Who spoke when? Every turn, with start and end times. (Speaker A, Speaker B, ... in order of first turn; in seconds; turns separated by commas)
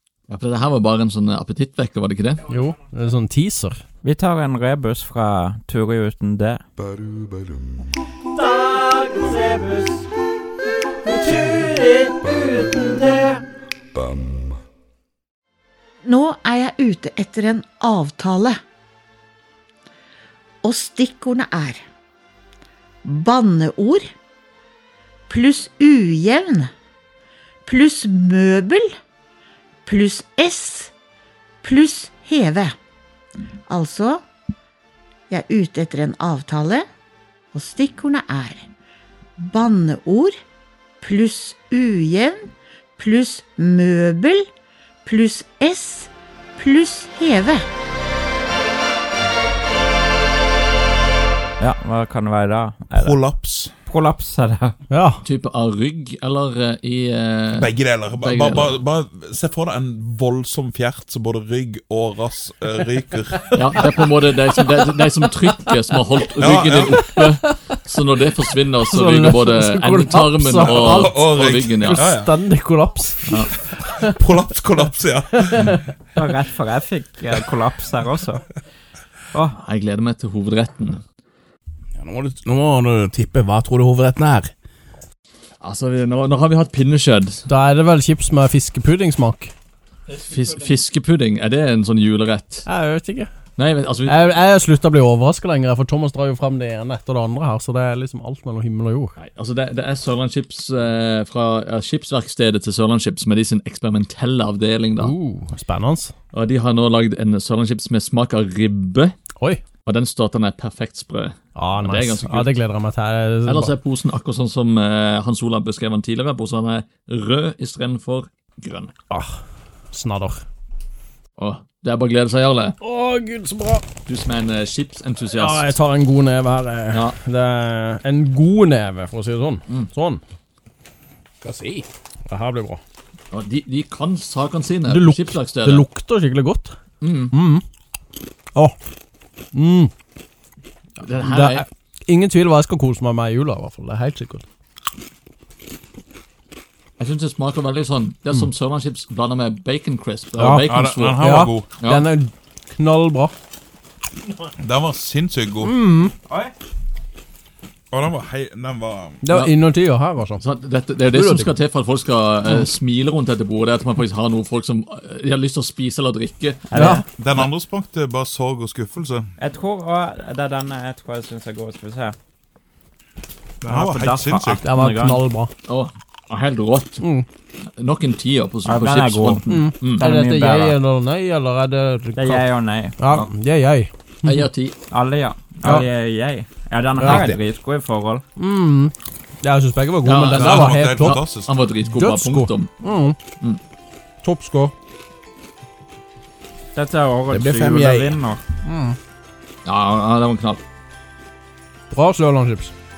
Speaker A: 0.3-2.5, Speaker B: 2.5-3.8, Speaker C: 4.0-6.6, Speaker C: 8.3-10.1, Speaker C: 11.0-13.5, Speaker D: 16.1-18.6, Speaker D: 20.6-21.8, Speaker D: 23.1-24.0, Speaker D: 25.3-26.7, Speaker D: 27.6-28.9, Speaker D: 29.9-30.9, Speaker D: 31.6-32.7, Speaker D: 33.7-34.2, Speaker D: 35.3-36.9, Speaker D: 37.5-38.7, Speaker D: 39.4-40.3, Speaker D: 41.0-42.4, Speaker D: 43.0-44.4, Speaker D: 45.0-47.6, Speaker C: 51.6-53.2, Speaker E: 52.9-53.7, Speaker C: 53.9-54.8, Speaker B: 54.9-55.2, Speaker A: 55.2-58.8, Speaker E: 57.5-63.8, Speaker A: 63.5-72.1, Speaker E: 66.4-67.1, Speaker B: 67.0-67.3, Speaker B: 68.9-71.2, Speaker E: 70.6-72.4, Speaker B: 71.8-74.2, Speaker E: 73.8-75.9, Speaker C: 76.2-78.5, Speaker A: 79.6-81.0, Speaker F: 82.0-84.5, Speaker A: 85.6-87.5, Speaker B: 87.5-89.5, Speaker A: 90.1-92.7, Speaker B: 92.7-93.3, Speaker A: 93.6-94.2, Speaker B: 94.0-99.2, Speaker A: 99.2-105.1, Speaker B: 105.0-106.1, Speaker A: 106.3-109.2, Speaker A: 109.8-112.6, Speaker B: 111.5-113.8, Speaker A: 113.5-118.9, Speaker B: 119.1-119.4, Speaker B: 119.9-120.4, Speaker A: 121.4-122.8, Speaker B: 122.8-123.8, Speaker A: 124.1-125.8, Speaker B: 125.3-130.2, Speaker A: 126.9-127.2, Speaker F: 131.4-131.9, Speaker B: 132.3-132.8, Speaker A: 133.3-135.9, Speaker B: 134.9-136.8, Speaker A: 137.0-137.3, Speaker B: 137.3-137.6, Speaker B: 139.5-139.9, Speaker A: 141.0-141.7, Speaker B: 141.2-144.4, Speaker A: 147.0-151.2, Speaker B: 150.4-150.6, Speaker E: 150.6-151.7, Speaker B: 151.2-153.3, Speaker A: 151.8-152.1, Speaker E: 154.6-155.7, Speaker B: 155.6-156.1, Speaker C: 156.3-156.5, Speaker E: 157.9-159.2, Speaker B: 159.2-160.4, Speaker A: 160.4-167.5, Speaker B: 161.1-161.6, Speaker C: 166.7-167.0, Speaker B: 166.7-167.0, Speaker E: 167.0-169.3, Speaker C: 169.4-172.2, Speaker E: 173.6-174.7, Speaker C: 173.7-175.2, Speaker B: 174.6-175.5, Speaker A: 175.7-177.0, Speaker B: 177.0-177.3, Speaker A: 177.8-180.0, Speaker C: 178.7-180.8, Speaker B: 179.5-182.5, Speaker C: 182.2-183.0, Speaker B: 183.0-184.5, Speaker A: 184.2-184.8, Speaker C: 184.9-188.2, Speaker B: 185.6-185.9, Speaker B: 187.0-187.3, Speaker F: 187.0-187.4, Speaker B: 188.4-191.2, Speaker A: 190.0-192.7, Speaker E: 190.3-191.6, Speaker B: 191.8-193.2, Speaker B: 194.2-194.7, Speaker C: 196.7-198.4, Speaker F: 197.3-198.2, Speaker B: 198.7-199.0, Speaker A: 199.7-200.6, Speaker B: 201.9-202.7